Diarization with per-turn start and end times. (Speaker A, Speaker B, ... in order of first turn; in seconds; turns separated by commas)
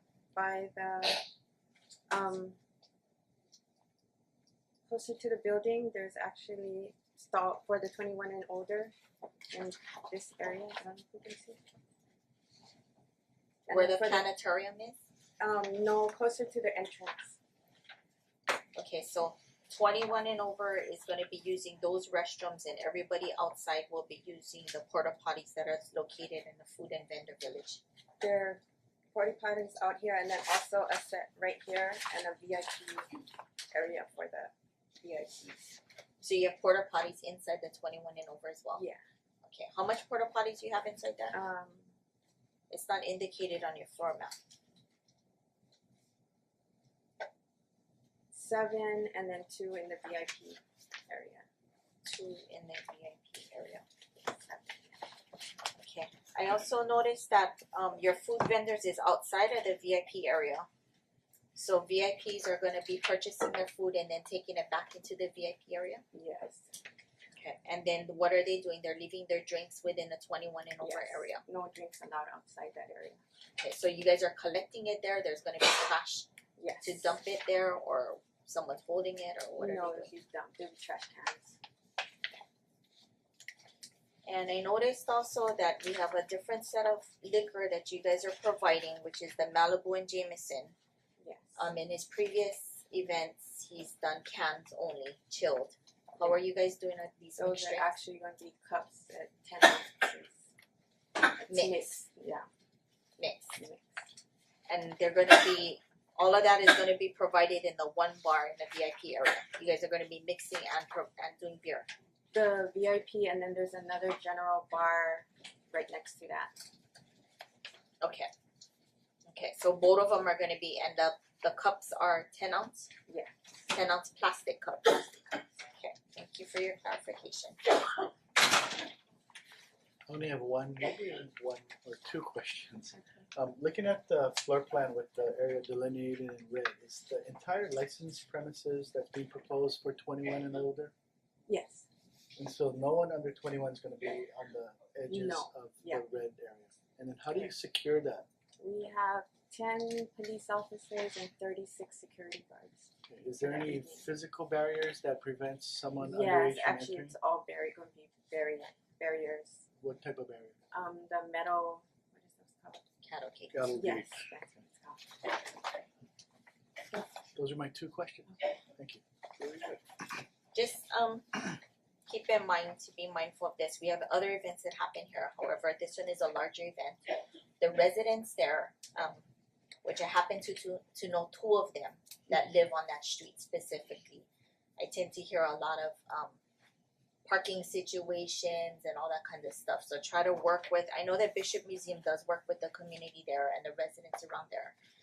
Speaker A: 0.3-1.2, Speaker A: 2.1-2.6, Speaker A: 4.9-8.9, Speaker A: 9.5-11.6, Speaker A: 13.7-14.3, Speaker B: 13.7-15.0, Speaker A: 15.4-17.4, Speaker B: 18.7-27.8, Speaker A: 28.2-28.6, Speaker A: 29.1-35.8, Speaker B: 36.2-38.8, Speaker B: 39.4-41.4, Speaker A: 41.3-41.9, Speaker B: 42.7-44.3, Speaker A: 48.3-51.5, Speaker B: 52.0-53.8, Speaker A: 54.2-55.0, Speaker B: 55.8-60.7, Speaker B: 61.5-66.0, Speaker A: 66.1-66.8, Speaker B: 67.3-71.4, Speaker A: 70.8-73.2, Speaker B: 73.6-76.3, Speaker A: 76.6-77.1, Speaker B: 76.8-80.1, Speaker A: 79.6-81.6, Speaker B: 84.2-90.7, Speaker A: 91.2-91.6, Speaker B: 91.6-98.0, Speaker A: 97.4-100.4, Speaker A: 101.4-102.5, Speaker B: 101.5-101.9, Speaker B: 103.2-103.5, Speaker A: 103.5-104.0, Speaker B: 104.7-111.9, Speaker A: 112.3-116.6, Speaker B: 118.0-118.3, Speaker B: 119.3-122.9, Speaker A: 123.1-123.3, Speaker B: 123.7-127.9, Speaker C: 130.1-140.9, Speaker A: 141.5-141.8, Speaker C: 142.3-148.3, Speaker A: 145.1-146.0, Speaker A: 148.6-154.1, Speaker C: 153.1-157.1, Speaker A: 156.0-159.6, Speaker C: 159.8-160.5, Speaker A: 160.7-162.8, Speaker B: 163.0-163.6, Speaker C: 163.5-164.3, Speaker A: 163.7-165.3, Speaker C: 167.3-169.8, Speaker B: 170.5-179.2, Speaker B: 179.8-184.2, Speaker B: 184.8-186.4, Speaker B: 187.2-194.7